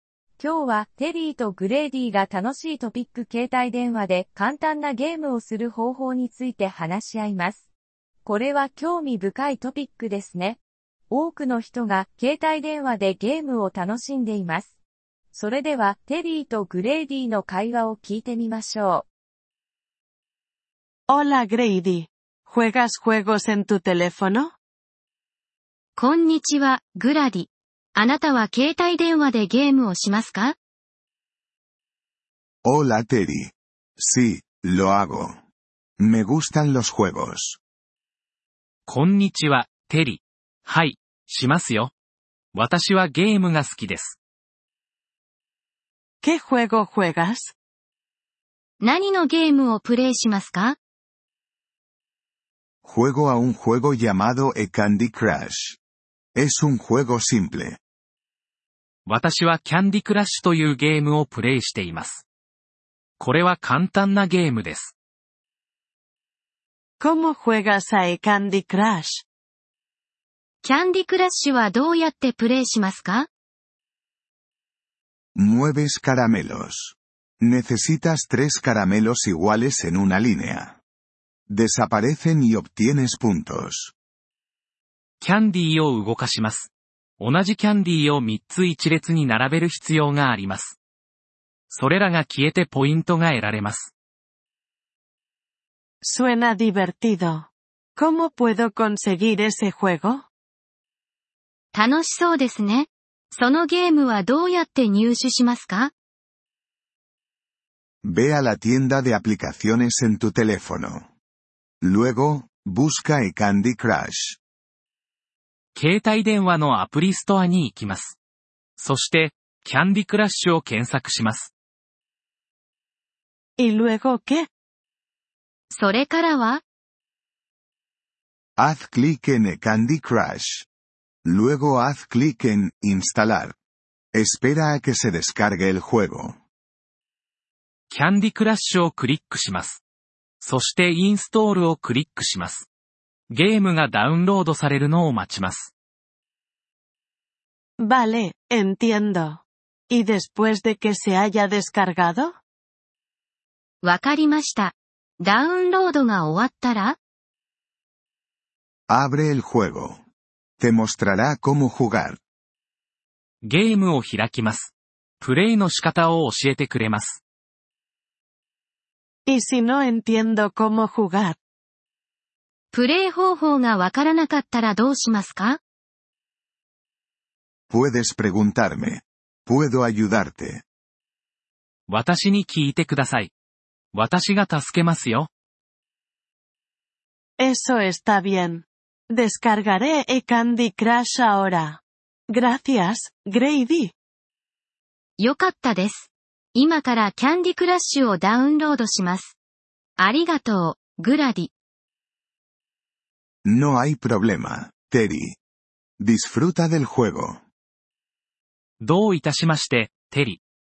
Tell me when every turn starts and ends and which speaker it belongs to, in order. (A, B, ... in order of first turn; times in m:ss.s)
0:00.4-0:07.7 A
0:08.2-0:14.7 A
0:15.3-0:19.0 A
0:21.1-0:24.5 B
0:26.0-0:30.6 C
0:32.6-0:35.4 D
0:36.0-0:37.6 D
0:38.8-0:41.9 E
0:42.5-0:44.2 E
0:46.2-0:47.5 B
0:48.8-0:50.8 C
0:52.8-0:55.8 D
0:56.3-0:57.8 D
0:59.0-1:02.2 E
1:03.2-1:04.9 E
1:07.0-1:09.2 B
1:10.6-1:13.3 C
1:15.3-1:20.8 D
1:21.5-1:23.9 D
1:25.2-1:30.8 E
1:31.7-1:33.9 E
1:36.0-1:40.3 B
1:41.7-1:45.9 C
1:48.0-1:51.1 D
1:51.8-1:54.4 D
1:55.7-1:58.2 E
1:58.8-2:01.5 E
2:03.6-2:04.5 B
2:05.7-2:06.6 C
2:08.6-2:10.7 D
2:11.2-2:13.6 D
2:14.1-2:16.4 D
2:17.9-2:19.8 E
2:20.4-2:22.7 E
2:23.3-2:25.7 E
2:27.8-2:32.4 B
2:33.8-2:37.0 C
2:38.9-2:40.0 D
2:40.6-2:42.2 D
2:43.4-2:47.2 E
2:49.3-2:51.4 B
2:52.7-2:55.6 C
2:57.7-3:00.6 D
3:01.9-3:03.3 E
3:03.9-3:05.3 E
3:07.4-3:13.9 B
3:15.2-3:19.3 C
3:20.0-3:21.5 C
3:23.4-3:25.4 D
3:26.0-3:27.4 D
3:28.8-3:30.4 E